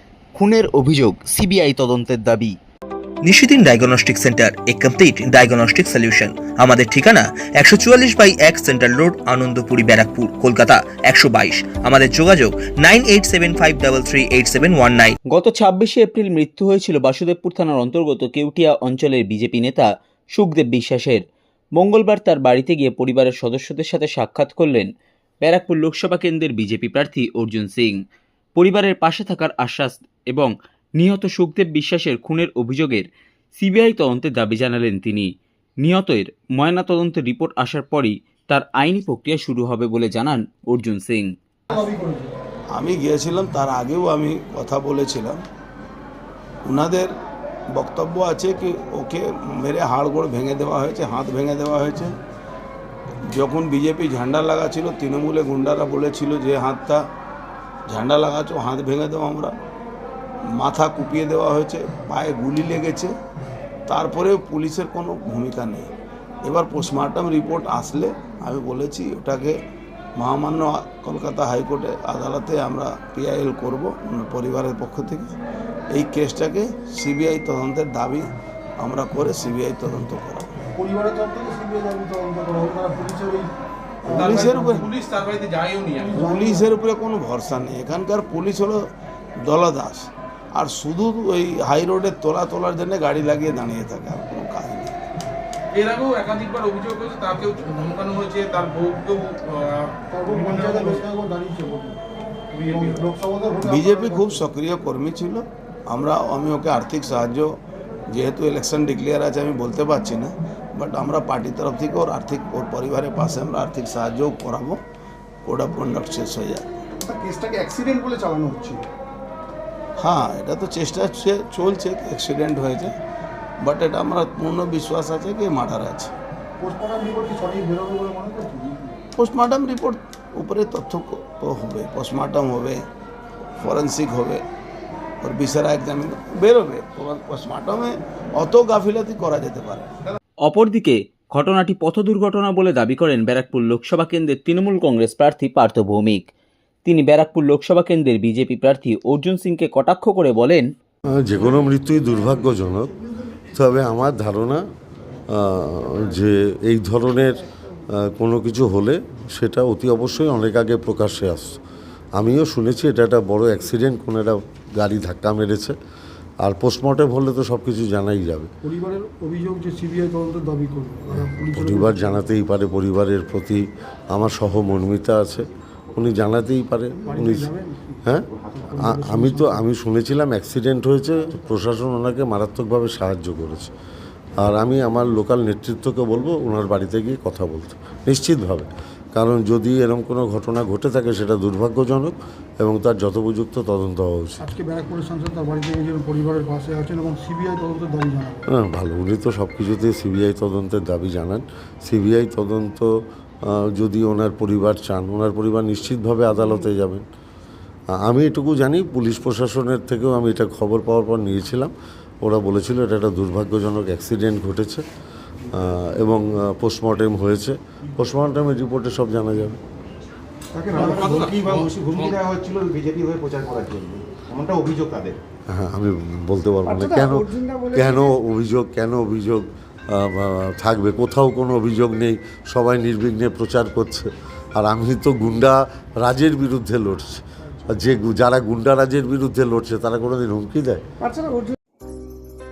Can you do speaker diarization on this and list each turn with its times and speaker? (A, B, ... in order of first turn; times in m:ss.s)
0:00.4-0:02.6 A
0:03.2-0:15.2 B
0:15.3-0:21.2 A
0:21.8-0:24.9 A
0:25.4-0:28.0 A
0:28.6-0:35.3 A
0:35.8-0:41.3 A
0:41.7-0:42.3 C
0:42.7-0:45.4 D
0:46.6-0:47.1 D
0:47.7-0:52.1 D
0:53.3-0:57.0 D
0:57.9-0:59.5 D
1:00.5-1:03.1 D
1:03.9-1:05.9 D
1:06.4-1:09.6 D
1:10.2-1:15.3 D
1:15.9-1:20.5 D
1:20.8-1:23.5 C
1:24.0-1:24.9 C
1:24.1-1:24.9 D
1:24.2-1:26.1 E
1:26.0-1:26.7 C
1:26.1-1:28.8 D
1:29.4-1:34.9 D
1:35.7-1:41.1 E
1:40.1-1:42.0 C
1:42.5-1:43.1 E
1:42.7-1:44.4 C
1:43.6-1:47.5 D
1:48.1-1:54.8 D
1:55.4-1:56.8 D
1:57.0-1:58.9 C
2:00.0-2:02.9 D
2:03.6-2:06.1 D
2:06.6-2:09.0 C
2:09.2-2:12.8 D
2:13.6-2:14.4 D
2:15.2-2:19.9 D
2:20.4-2:26.3 A
2:26.8-2:30.7 A
2:31.2-2:32.9 F
2:33.5-2:34.6 F
2:35.3-2:41.6 F
2:42.2-2:45.8 F
2:46.4-2:48.5 F
2:48.6-2:52.2 C
2:51.1-2:57.5 F
2:57.0-2:59.6 C
2:58.1-3:03.7 F
3:04.4-3:14.4 F
3:14.4-3:18.4 C
3:18.5-3:22.9 F
3:23.4-3:27.0 F
3:27.9-3:34.8 F
3:35.5-3:39.6 F
3:40.5-3:45.2 G
3:40.7-3:42.2 E
3:45.5-4:00.8 F